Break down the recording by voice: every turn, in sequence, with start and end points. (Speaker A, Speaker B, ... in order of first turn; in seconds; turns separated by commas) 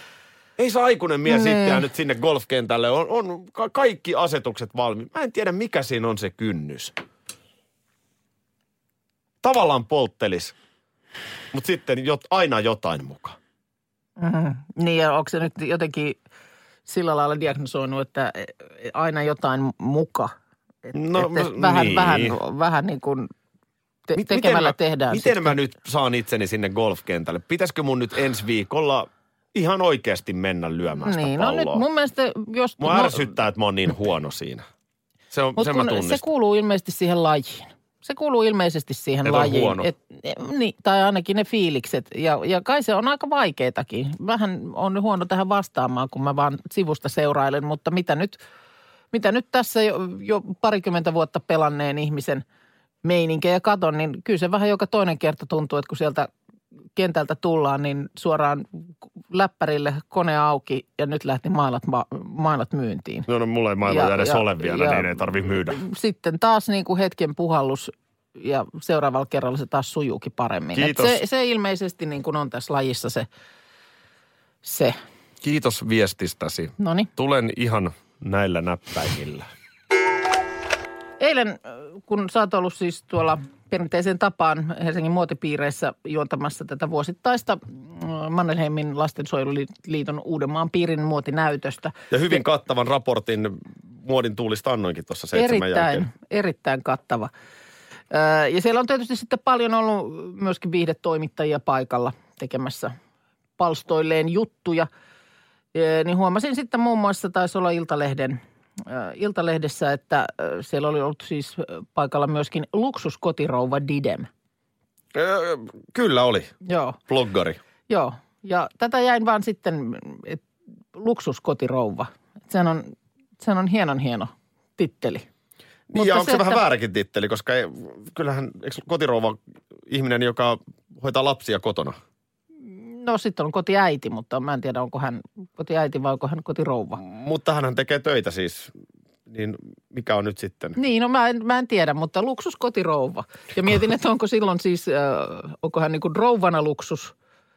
Speaker A: 0.6-7.0, Speaker B: 1.3-1.8, Speaker A: 9.4-10.6, Speaker A: 11.5-13.4, Speaker B: 14.2-16.2, Speaker B: 16.9-20.3, Speaker B: 20.9-23.3, Speaker A: 20.9-22.4, Speaker B: 24.1-25.6, Speaker A: 24.1-31.9, Speaker B: 31.0-33.3, Speaker A: 32.8-34.6, Speaker A: 35.3-36.2, Speaker B: 35.6-48.4, Speaker A: 39.2-39.9, Speaker B: 49.1-52.4, Speaker B: 53.0-56.3, Speaker B: 57.0-58.6, Speaker B: 59.3-63.3, Speaker A: 63.3-65.8, Speaker B: 63.9-73.3, Speaker A: 70.8-71.2, Speaker B: 74.6-75.0, Speaker A: 75.4-79.5, Speaker B: 76.8-77.1, Speaker B: 81.2-92.4, Speaker A: 92.1-96.1, Speaker B: 95.3-97.3, Speaker B: 98.1-103.0, Speaker B: 103.6-104.9, Speaker B: 105.7-114.3, Speaker A: 115.1-116.5, Speaker B: 116.7-117.0, Speaker A: 117.1-117.6, Speaker B: 117.9-125.3, Speaker A: 125.9-132.0, Speaker B: 125.9-126.6, Speaker B: 132.7-137.0, Speaker A: 137.0-138.7, Speaker A: 139.3-140.8, Speaker B: 140.8-147.1